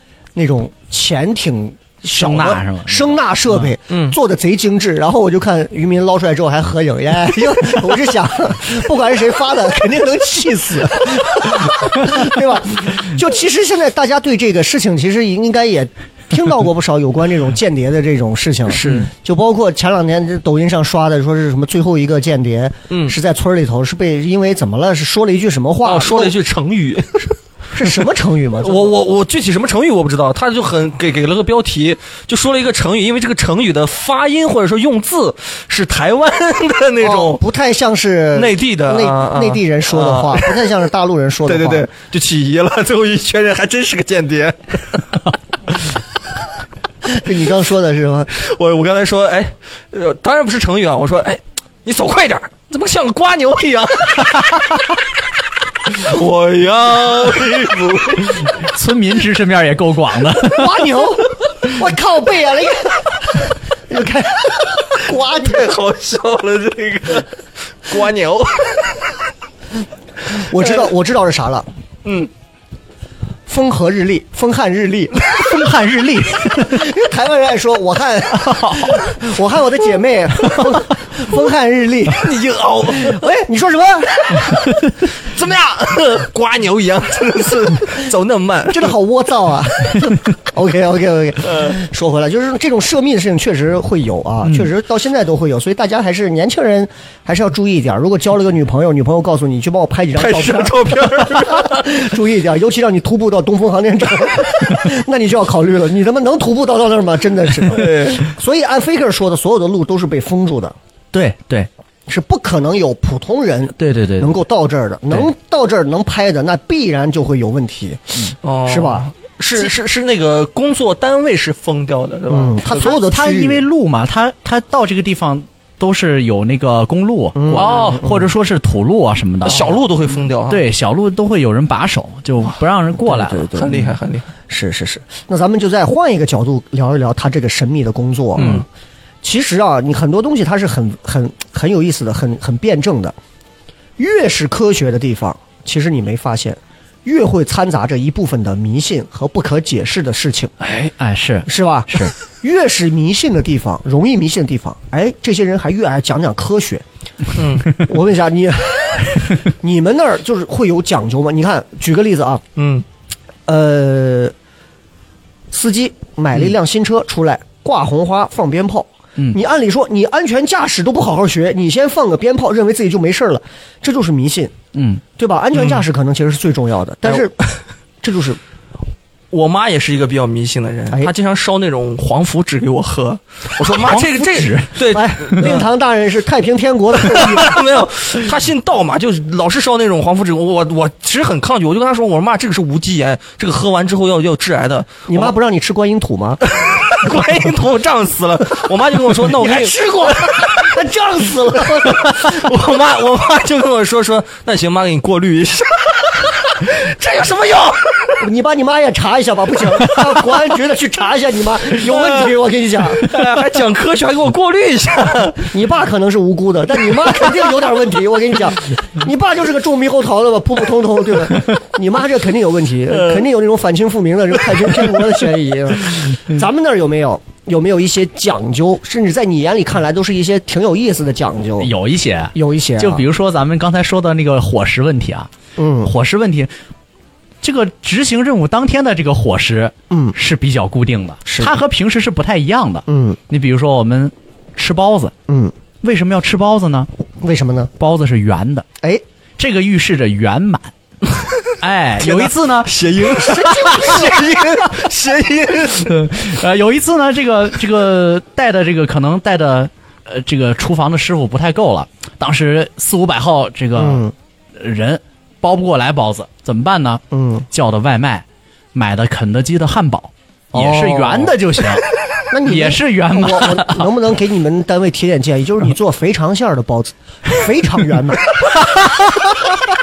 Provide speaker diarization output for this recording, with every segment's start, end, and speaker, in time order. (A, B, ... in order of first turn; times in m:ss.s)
0:00.3-0:26.3 A
0:02.1-0:03.7 B
0:03.9-0:04.2 C
0:18.7-0:19.1 C
0:22.9-0:23.2 C
0:25.8-0:28.0 C
0:27.7-0:28.9 A
0:28.6-0:37.4 C
0:37.0-0:41.9 A
0:38.3-0:40.7 C
0:41.4-0:45.0 C
0:47.0-0:48.3 A
0:48.3-0:54.7 C
0:55.8-0:58.5 C
0:58.6-1:00.9 B
1:00.5-1:05.7 A
1:05.3-1:09.1 C
1:10.3-1:11.7 A
1:10.6-1:10.8 C
1:12.0-1:12.3 C
1:13.5-1:15.1 A
1:15.3-1:16.8 B
1:16.5-1:22.3 A
1:18.4-1:19.0 B
1:22.1-1:23.3 C
1:23.0-1:24.4 A
1:24.3-1:24.6 C
1:25.2-1:29.0 C
1:28.7-1:50.8 A
1:40.2-1:41.9 C
1:47.7-1:48.3 C
1:51.1-1:51.7 B
1:52.1-1:59.1 A
1:53.8-1:54.4 B
1:58.4-2:03.0 C
2:02.3-2:03.6 A
2:02.7-2:09.8 B
2:07.3-2:08.3 A
2:07.5-2:08.0 C
2:09.4-2:10.7 C
2:10.5-2:13.8 B
2:13.1-2:13.7 A
2:13.6-2:14.3 C
2:14.5-2:18.6 A
2:18.4-2:18.6 C
2:19.2-2:23.1 A
2:24.0-2:30.5 A
2:30.6-2:30.9 C
2:31.0-2:32.1 B
2:31.4-2:36.8 A
2:37.3-2:37.8 C
2:37.8-2:42.4 A
2:42.6-2:42.8 C
2:43.5-2:44.3 A
2:45.5-2:54.5 A
2:54.7-2:55.0 B
2:55.2-2:57.4 A
2:58.0-2:58.4 A
2:59.3-3:05.6 C
3:03.7-3:04.8 B
3:04.9-3:07.6 A
3:07.0-3:15.3 C
3:15.1-3:16.4 A
3:16.5-3:20.4 C
3:19.3-3:22.3 A
3:21.8-3:28.2 C
3:28.2-3:33.1 A
3:31.8-3:32.3 C
3:33.0-3:35.5 C
3:35.5-3:51.7 A
3:51.6-3:55.3 B
3:52.3-3:53.0 A
3:55.6-3:55.9 A
3:55.8-3:56.5 B
3:57.4-4:05.1 B
3:59.9-4:00.2 A
4:01.2-4:01.5 A
4:02.9-4:03.2 A
4:05.3-4:05.5 A
4:05.8-4:06.9 B
4:07.2-4:07.7 A
4:07.8-4:08.6 B
4:09.4-4:10.7 B
4:11.6-4:12.8 B
4:12.0-4:16.0 C
4:13.1-4:14.2 A
4:13.5-4:13.9 B
4:15.8-4:31.8 B
4:23.8-4:24.1 A
4:27.1-4:27.4 A
4:30.5-4:31.4 A
4:32.3-4:38.4 A
4:32.4-4:33.9 B
4:38.6-4:39.2 B